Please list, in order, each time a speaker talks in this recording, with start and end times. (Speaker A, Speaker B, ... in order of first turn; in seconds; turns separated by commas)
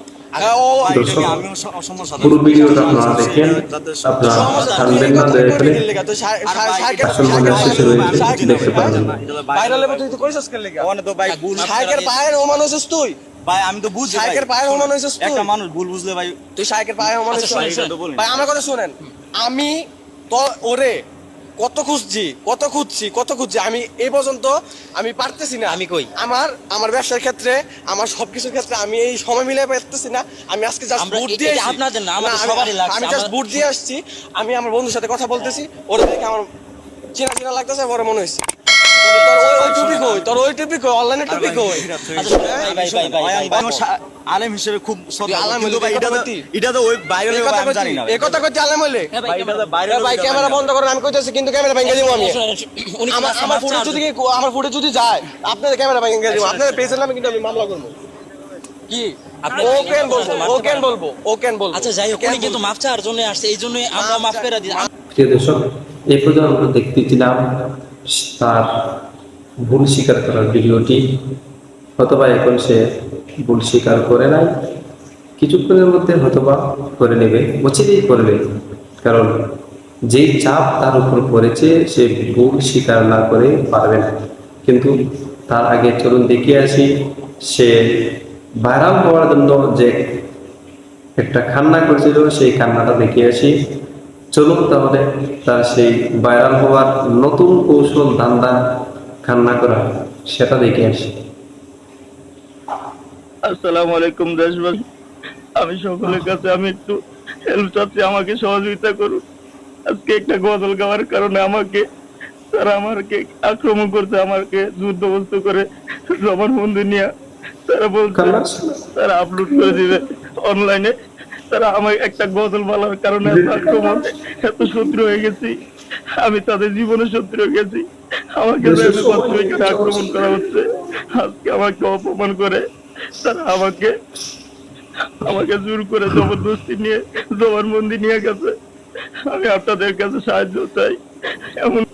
Speaker A: 0.3-1.3, Speaker B: 0.4-4.9, Speaker C: 0.9-1.4, Speaker C: 2.2-5.8, Speaker A: 4.2-10.9, Speaker D: 4.5-5.1, Speaker B: 6.4-11.8, Speaker C: 7.0-9.1, Speaker D: 11.3-12.1, Speaker A: 11.6-13.2, Speaker B: 13.4-16.5, Speaker A: 14.1-15.5, Speaker A: 16.6-19.7, Speaker B: 17.3-18.5, Speaker D: 17.3-17.9, Speaker A: 20.3-21.0, Speaker A: 21.6-36.5, Speaker D: 25.7-26.1, Speaker D: 31.0-33.6, Speaker A: 37.1-38.4, Speaker D: 38.9-40.1, Speaker A: 39.0-42.7, Speaker B: 39.7-40.2, Speaker B: 41.3-48.4, Speaker D: 42.1-43.8, Speaker A: 45.2-46.5, Speaker A: 47.2-49.1, Speaker D: 49.1-49.8, Speaker B: 49.2-50.6, Speaker A: 49.8-52.4, Speaker D: 51.8-54.0, Speaker A: 53.1-57.9, Speaker A: 58.9-62.7, Speaker D: 59.4-60.9, Speaker B: 59.6-60.5, Speaker D: 61.7-64.9, Speaker A: 63.9-64.9, Speaker C: 65.1-68.9, Speaker C: 69.6-71.0, Speaker C: 72.0-72.8, Speaker C: 73.4-74.5, Speaker C: 75.4-78.4, Speaker C: 79.0-79.4, Speaker C: 80.1-84.1, Speaker C: 84.7-90.2, Speaker C: 91.2-93.7, Speaker C: 94.3-98.6, Speaker C: 99.2-101.2, Speaker E: 103.5-104.8, Speaker E: 105.6-109.2, Speaker E: 109.9-111.8, Speaker E: 112.5-117.1, Speaker E: 117.7-120.9, Speaker C: 118.1-118.9, Speaker C: 119.5-119.9, Speaker E: 121.5-125.6, Speaker C: 123.2-124.1, Speaker E: 126.2-133.9, Speaker C: 128.6-130.6, Speaker E: 135.2-138.5, Speaker E: 139.3-141.0, Speaker E: 141.6-141.8